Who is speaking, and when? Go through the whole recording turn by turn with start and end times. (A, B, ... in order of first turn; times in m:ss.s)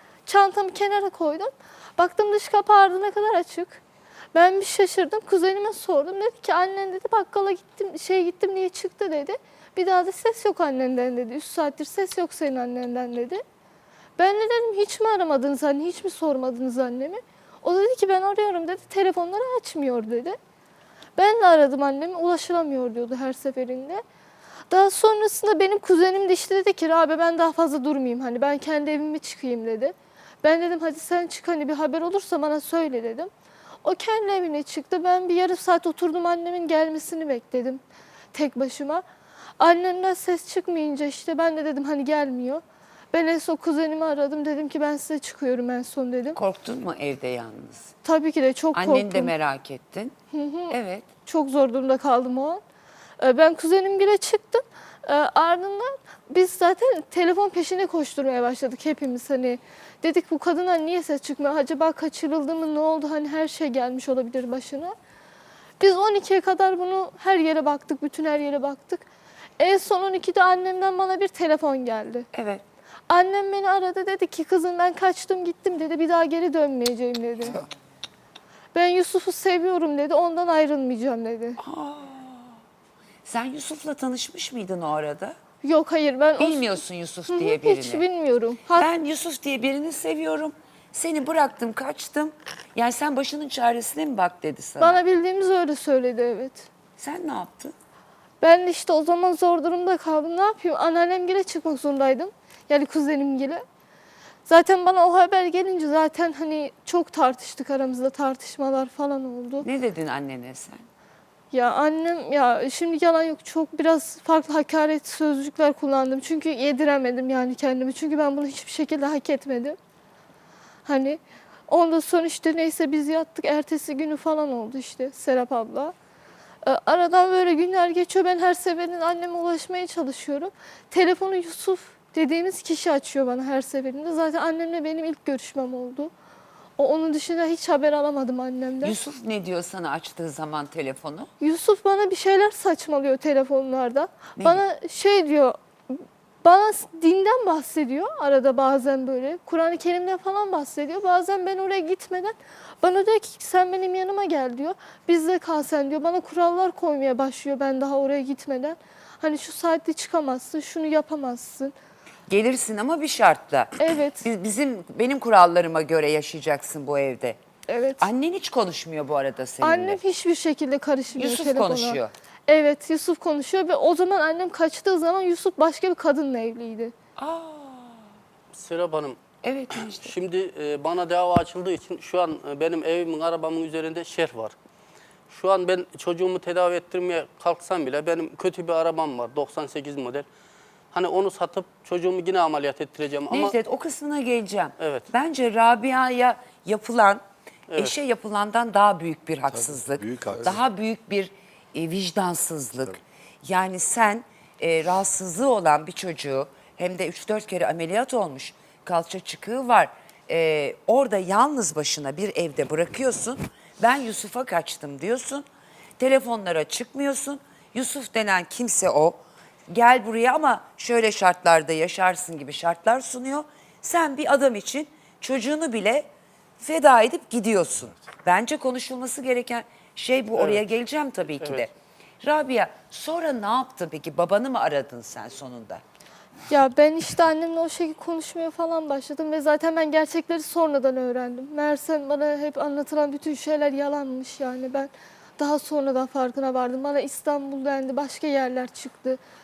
0:00.2-0:03.8 A
0:04.3-0:13.4 A
0:14.2-0:20.4 A
0:21.2-0:24.0 A
0:24.7-0:33.3 A
0:33.8-0:37.8 A
0:38.3-0:39.0 A
0:39.6-0:42.6 A
0:43.1-0:46.4 A
0:46.3-0:47.9 B
0:48.0-0:49.3 A
0:48.7-0:50.1 B
0:50.3-0:50.7 A
0:50.7-0:51.1 B
0:51.2-0:52.6 A
0:53.2-1:04.9 A
1:05.8-1:09.0 A
1:09.6-1:12.3 A
1:12.3-1:12.6 B
1:13.1-1:17.6 A
1:18.7-1:21.6 A
1:21.6-1:22.6 B
1:23.2-1:25.4 B
1:25.6-1:26.7 A
1:26.4-1:28.0 B
1:27.3-1:28.9 A
1:28.7-1:35.0 B
1:34.8-1:36.7 A
1:37.0-1:37.8 B
1:38.4-1:43.6 A
1:44.4-1:49.6 A
1:49.6-1:50.9 B
1:51.5-1:59.8 A
2:00.9-2:05.9 A
2:06.6-2:16.1 A
2:16.8-2:18.9 A
2:18.8-2:21.3 B
2:21.4-2:41.7 A
2:24.4-2:24.6 B
2:42.3-2:47.4 B
2:43.8-2:44.2 A
2:47.7-2:48.0 A
2:48.0-2:50.0 B
2:49.6-2:56.9 A
2:51.2-2:52.1 B
2:57.2-2:58.0 B
2:58.5-2:59.2 C
2:59.4-3:00.1 B
2:59.8-3:04.5 C
3:05.3-3:10.2 C
3:10.9-3:13.5 C
3:13.3-3:17.2 B
3:14.8-3:15.0 C
3:17.8-3:35.4 B
3:36.0-3:55.8 B
3:50.4-3:50.6 C
3:56.5-4:09.2 A